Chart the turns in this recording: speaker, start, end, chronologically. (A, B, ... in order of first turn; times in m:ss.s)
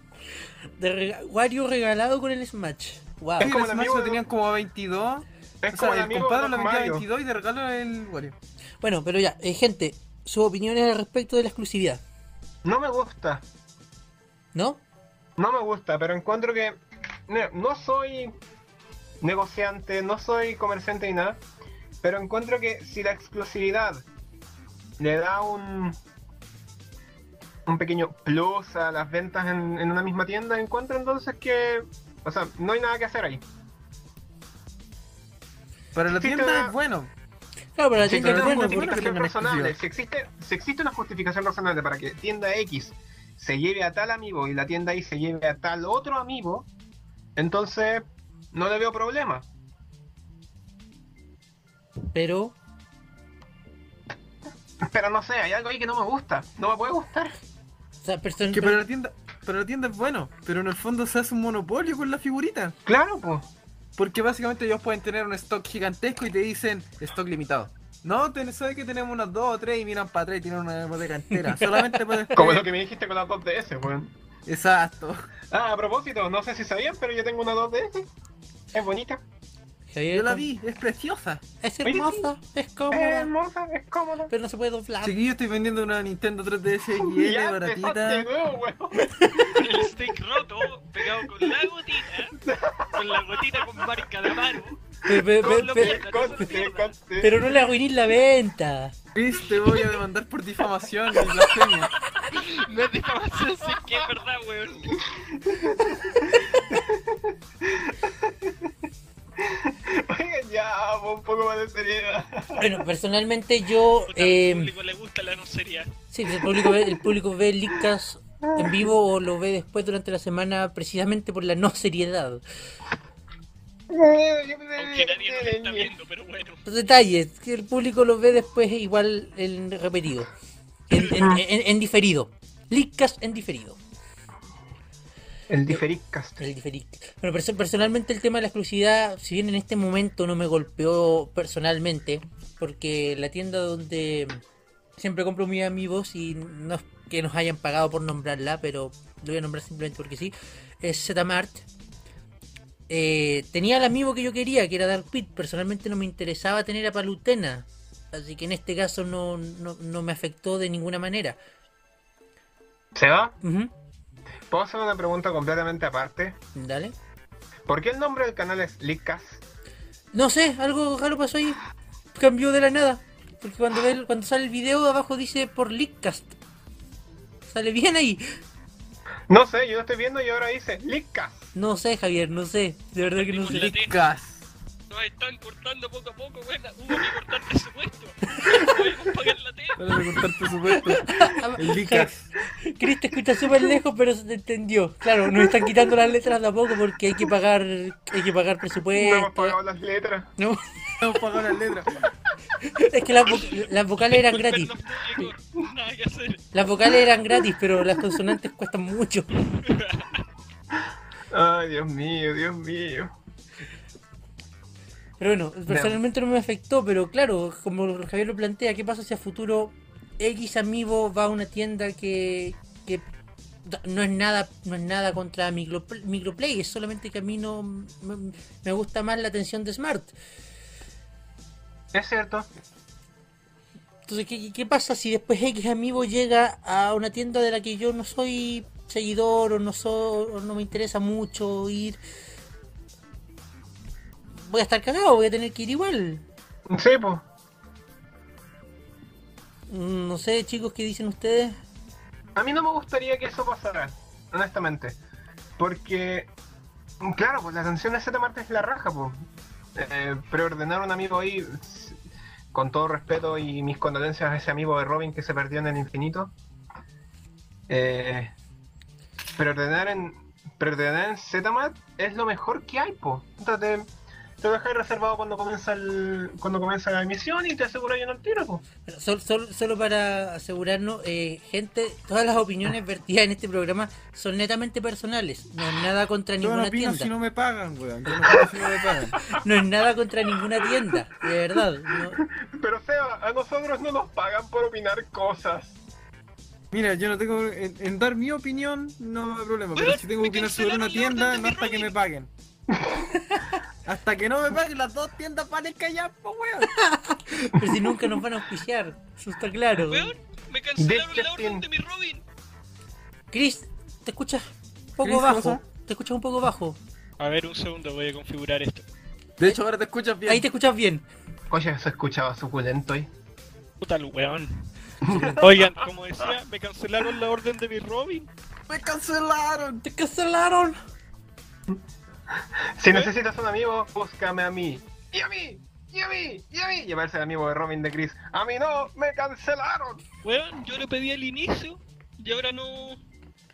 0:00.8-0:03.5 A
0:03.4-0:04.2 B
0:03.4-0:08.4 C
0:05.6-0:07.1 B
0:08.8-0:12.0 A
0:12.6-0:13.4 B
0:14.5-0:14.8 A
0:15.4-0:18.3 B
0:19.2-0:21.4 B
0:22.0-0:24.0 B
0:25.0-0:26.0 B
0:27.7-0:33.4 B
0:35.9-0:37.1 C
0:36.1-0:36.8 B
0:37.8-0:39.1 A
0:38.0-0:46.7 B
0:38.1-0:39.8 C
0:47.4-0:49.5 B
0:52.1-0:52.6 A
0:54.8-0:57.4 B
0:58.0-0:58.8 A
0:58.5-1:02.8 C
1:02.8-1:03.5 B
1:04.0-1:12.6 C
1:11.4-1:12.4 A
1:12.3-1:14.1 B
1:14.5-1:15.3 C
1:15.5-1:18.1 B
1:18.7-1:19.2 B
1:19.9-1:20.5 A
1:20.1-1:21.4 C
1:21.6-1:23.3 A
1:21.8-1:22.3 B
1:22.9-1:24.3 B
1:24.3-1:25.2 A
1:25.0-1:28.3 C
1:27.0-1:29.9 B
1:29.0-1:29.5 A
1:29.5-1:32.4 D
1:31.2-1:31.5 B
1:32.4-1:33.8 B
1:32.9-1:36.9 D
1:35.1-1:36.4 A
1:35.4-1:37.4 B
1:37.2-1:38.9 A
1:39.2-1:41.9 C
1:42.2-1:45.0 D
1:45.1-1:48.7 B
1:49.4-1:52.8 B
1:52.6-1:54.7 A
1:54.1-1:55.9 D
1:56.1-2:02.4 A
1:56.5-1:57.0 B
1:58.5-1:58.8 B
2:03.9-2:05.9 B
2:04.8-2:06.6 D
2:06.6-2:10.3 A
2:10.9-2:13.8 A
2:11.1-2:11.4 B
2:15.5-2:16.4 B
2:16.4-2:24.4 A
2:25.0-2:31.6 A
2:32.9-2:41.4 A
2:43.0-2:43.4 B
2:43.4-2:43.7 A
2:44.5-2:46.4 B
2:46.6-2:47.0 A
2:47.7-2:49.4 B
2:50.1-2:51.6 A
2:52.1-2:56.4 A
2:57.5-2:58.2 A
2:59.3-3:01.5 B
3:01.5-3:03.8 A
3:03.0-3:04.0 D
3:03.5-3:04.5 C
3:04.9-3:10.2 D
3:08.4-3:08.7 A
3:09.8-3:12.3 C
3:10.7-3:19.6 A
3:15.3-3:15.9 B
3:18.9-3:20.3 B
3:20.4-3:20.6 A
3:21.0-3:22.0 C
3:22.6-3:24.7 A
3:23.2-3:26.4 D
3:26.5-3:29.3 A
3:29.5-3:30.2 D
3:31.3-3:33.1 B
3:35.2-3:43.0 A
3:35.7-3:36.0 B
3:43.6-3:50.1 A
3:51.9-3:52.5 B
3:54.1-4:02.0 A
4:04.4-4:06.2 A
4:06.7-4:07.2 B
4:09.7-4:11.6 A
4:12.4-4:15.0 B
4:15.6-4:16.3 B
4:17.0-4:22.0 B
4:22.5-4:26.3 B
4:27.7-4:28.4 B
4:29.4-4:38.6 B
4:38.9-4:47.1 A
4:46.4-4:49.2 C
4:49.3-4:52.3 A
4:52.2-4:55.8 B
4:56.7-5:02.3 C
4:59.8-5:01.9 D
5:03.9-5:06.8 C
5:06.7-5:10.1 A
5:09.8-5:12.2 D
5:10.8-5:11.7 B
5:13.3-5:16.8 A
5:15.0-5:15.6 C
5:17.2-5:18.8 D
5:19.4-5:20.4 C
5:20.3-5:21.0 A
5:21.5-5:23.1 B
5:23.8-5:28.3 D
5:25.0-5:25.7 B
5:28.7-5:29.8 C
5:29.8-5:30.8 A
5:32.6-5:40.0 B
5:40.2-5:43.0 D